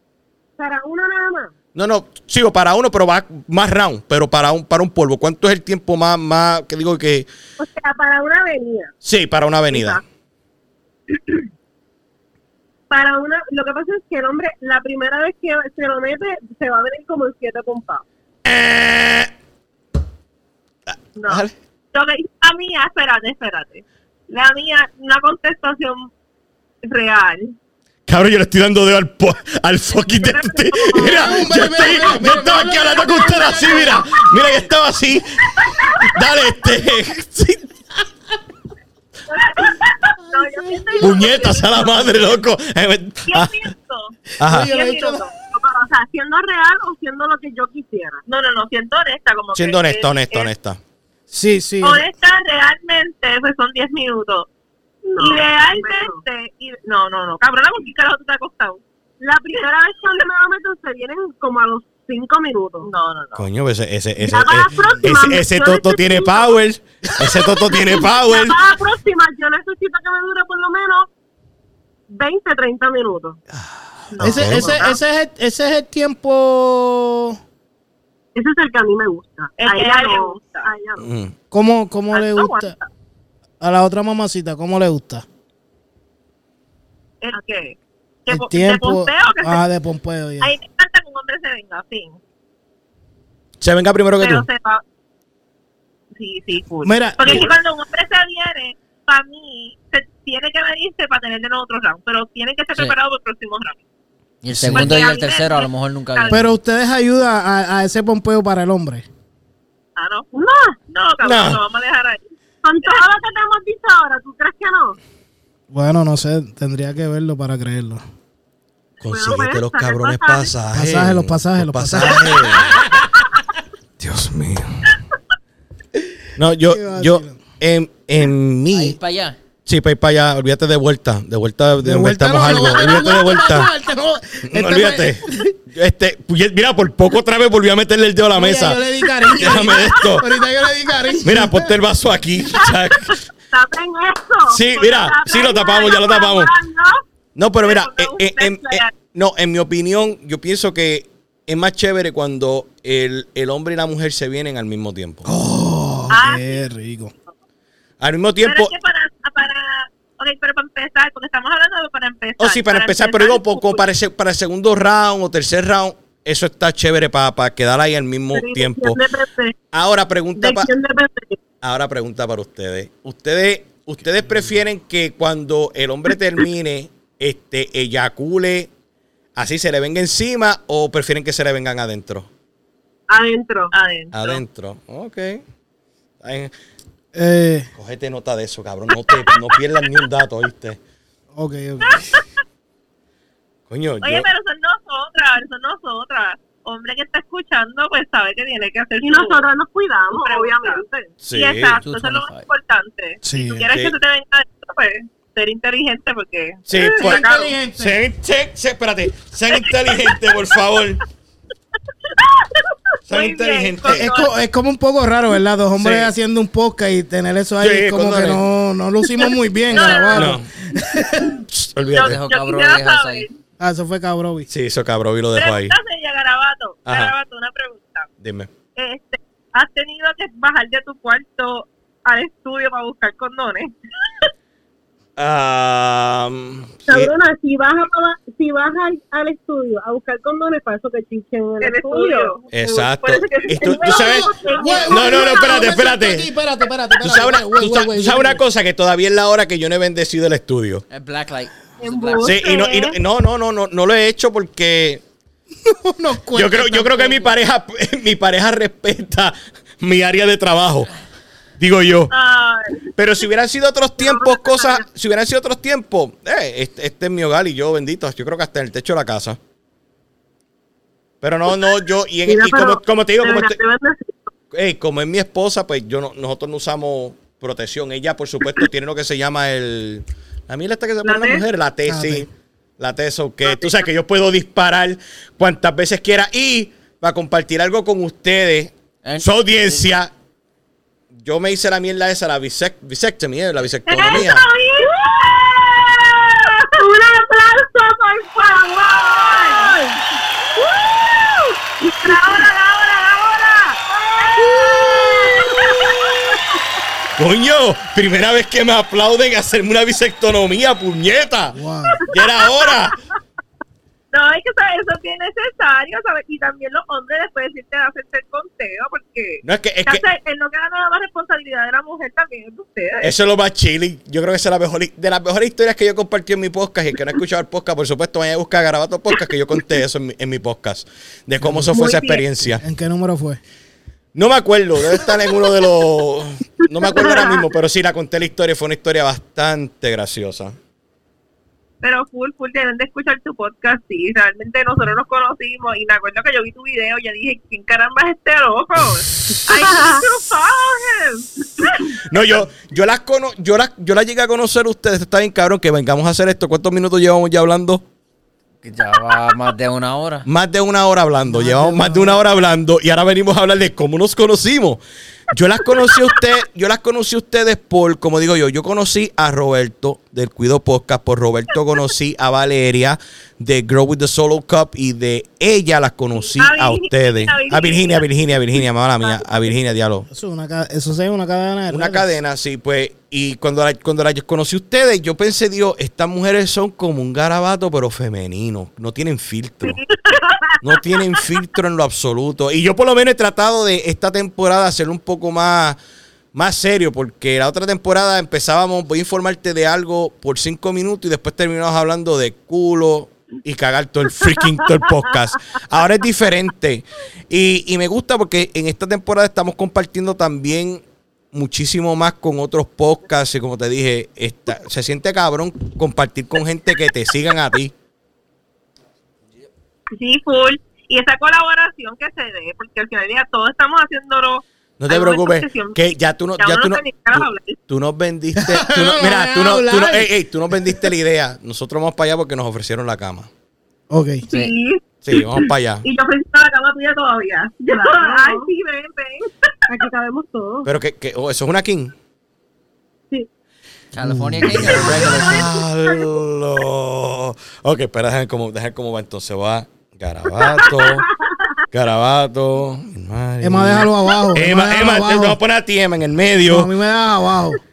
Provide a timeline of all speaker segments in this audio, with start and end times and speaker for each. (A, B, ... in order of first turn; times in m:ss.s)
0:00.6-0:01.5 A
0:01.7-0:07.3 B
0:07.6-0:08.9 A
0:09.0-0:10.0 B
0:09.7-0:10.0 A
0:12.9-0:18.0 A
0:18.4-0:19.3 B
0:21.2-0:26.1 C
0:21.2-0:21.5 B
0:26.8-0:27.5 C
0:28.1-0:37.7 B
0:29.9-0:31.4 C
0:31.0-0:34.0 D
0:39.3-0:41.8 C
0:40.2-0:42.1 D
0:40.9-0:41.7 A
0:41.0-0:43.6 B
0:43.3-0:44.2 C
0:44.4-0:44.7 B
0:44.4-0:45.3 D
0:44.7-0:45.2 C
0:44.7-0:48.2 A
0:48.3-0:50.5 C
0:49.5-0:50.8 B
0:51.3-0:52.1 D
0:51.8-0:54.5 C
0:55.0-0:56.2 A
0:55.2-0:58.8 C
0:59.2-1:02.9 A
1:02.8-1:03.4 C
1:03.3-1:08.6 B
1:04.2-1:06.6 A
1:07.4-1:11.1 A
1:12.1-1:13.4 A
1:13.5-1:14.8 B
1:14.2-1:14.9 A
1:14.2-1:17.4 D
1:18.3-1:21.1 A
1:19.6-1:20.7 C
1:21.0-1:21.3 B
1:21.5-1:22.7 D
1:22.1-1:22.8 C
1:23.6-1:25.2 D
1:27.2-1:29.6 C
1:28.3-1:30.5 D
1:30.4-1:32.2 C
1:33.6-1:34.5 B
1:34.2-1:34.8 C
1:36.1-1:43.8 C
1:36.8-1:37.5 D
1:44.4-1:46.4 E
1:44.5-1:44.9 B
1:44.7-1:46.4 C
1:46.3-1:49.0 D
1:50.0-1:50.3 C
1:50.3-1:50.8 A
1:50.9-1:52.3 C
1:51.2-1:51.6 B
1:52.6-1:55.0 A
1:55.7-1:58.0 D
1:59.0-2:02.8 B
1:59.1-2:00.5 C
2:00.7-2:02.7 D
2:04.0-2:05.0 B
2:06.4-2:09.0 B
2:06.7-2:07.4 D
2:08.7-2:09.4 E
2:09.6-2:13.7 B
2:11.8-2:15.5 D
2:14.5-2:18.8 B
2:18.3-2:21.7 D
2:19.4-2:20.3 B
2:21.2-2:23.2 B
2:23.5-2:27.0 C
2:24.4-2:26.5 B
2:27.4-2:35.3 B
2:27.6-2:28.9 C
2:35.2-2:37.1 D
2:36.1-2:36.6 C
2:38.0-2:38.7 B
2:38.4-2:43.8 C
2:42.4-2:49.0 B
2:48.4-2:49.5 A
2:49.7-2:50.7 B
2:50.4-2:51.4 A
2:51.6-2:58.7 B
2:54.1-2:54.5 D
2:59.4-3:02.3 B
3:03.1-3:03.7 A
3:03.7-3:04.4 C
3:04.1-3:05.4 B
3:06.2-3:06.5 B
3:07.1-3:07.7 D
3:07.8-3:10.8 B
3:11.4-3:12.1 D
3:11.8-3:12.2 C
3:13.7-3:14.3 B
3:14.0-3:19.4 C
3:19.0-3:21.1 A
3:20.1-3:27.5 C
3:21.2-3:21.8 B
3:21.8-3:22.4 E
3:23.2-3:23.7 D
3:23.7-3:24.0 B
3:26.7-3:31.0 B
3:26.9-3:28.0 D
3:32.1-3:34.3 C
3:33.1-3:34.1 B
3:33.8-3:41.4 D
3:35.8-3:36.1 B
3:37.6-3:38.4 B
3:39.7-3:40.4 C
3:40.1-3:40.5 B
3:41.4-3:42.2 B
3:41.9-3:43.3 C
3:41.9-3:43.3 E
3:43.6-3:44.5 D
3:44.5-3:45.8 B
3:45.4-3:48.1 C
3:46.8-3:47.1 B
3:48.2-3:48.5 B
3:48.8-3:54.3 C
3:55.2-3:57.1 B
3:56.9-4:02.3 A
4:01.6-4:05.3 C
4:02.5-4:04.3 B
4:03.6-4:05.8 A
4:04.6-4:08.4 D
4:04.9-4:06.3 B
4:07.0-4:10.8 B
4:10.9-4:12.4 E
4:11.8-4:12.8 A
4:12.1-4:12.7 C
4:12.2-4:15.0 B
4:15.6-4:17.3 D
4:16.3-4:20.9 B
4:21.6-4:22.1 B
4:22.1-4:22.8 C
4:23.0-4:29.4 B
4:24.0-4:24.8 C
4:31.2-4:33.6 B
4:32.3-4:34.3 A
4:34.5-4:50.1 B
4:41.0-4:41.4 A
4:41.8-4:42.3 D
4:49.0-4:49.8 E
4:51.2-4:54.4 B
4:53.9-4:56.6 C
4:54.8-4:55.6 A
4:56.6-5:00.0 A
4:58.4-4:59.8 C
5:00.6-5:01.4 C
5:01.4-5:02.5 A
5:02.0-5:06.4 C
5:04.3-5:06.4 A
5:07.2-5:13.0 B
5:11.5-5:12.0 D
5:14.1-5:23.1 C
5:19.4-5:20.0 B
5:23.0-5:32.6 B
5:31.4-5:31.7 D
5:31.7-5:32.2 C
5:32.6-5:33.4 D
5:34.1-5:40.6 B
5:37.0-5:37.2 A
5:41.8-5:52.0 C
5:49.5-5:50.0 A
5:52.0-5:57.8 B
5:58.6-6:00.2 E
6:00.2-6:20.1 B
6:01.3-6:02.2 D
6:16.3-6:18.0 C
6:20.1-6:22.1 D
6:21.7-6:29.8 B
6:29.6-6:30.4 C
6:30.6-6:35.8 B
6:36.3-6:57.7 B
6:59.9-7:05.8 C
7:04.8-7:13.3 B
7:06.4-7:07.6 C
7:08.4-7:10.1 D
7:13.9-7:14.2 D
7:14.3-7:19.5 C
7:15.0-7:15.8 B
7:17.6-7:18.5 A
7:19.7-7:20.7 A
7:20.6-7:21.9 B
7:23.9-7:25.6 E
7:24.0-7:24.7 D
7:24.4-7:31.1 B
7:31.7-7:36.7 B
7:33.4-7:35.4 D
7:36.4-7:37.6 D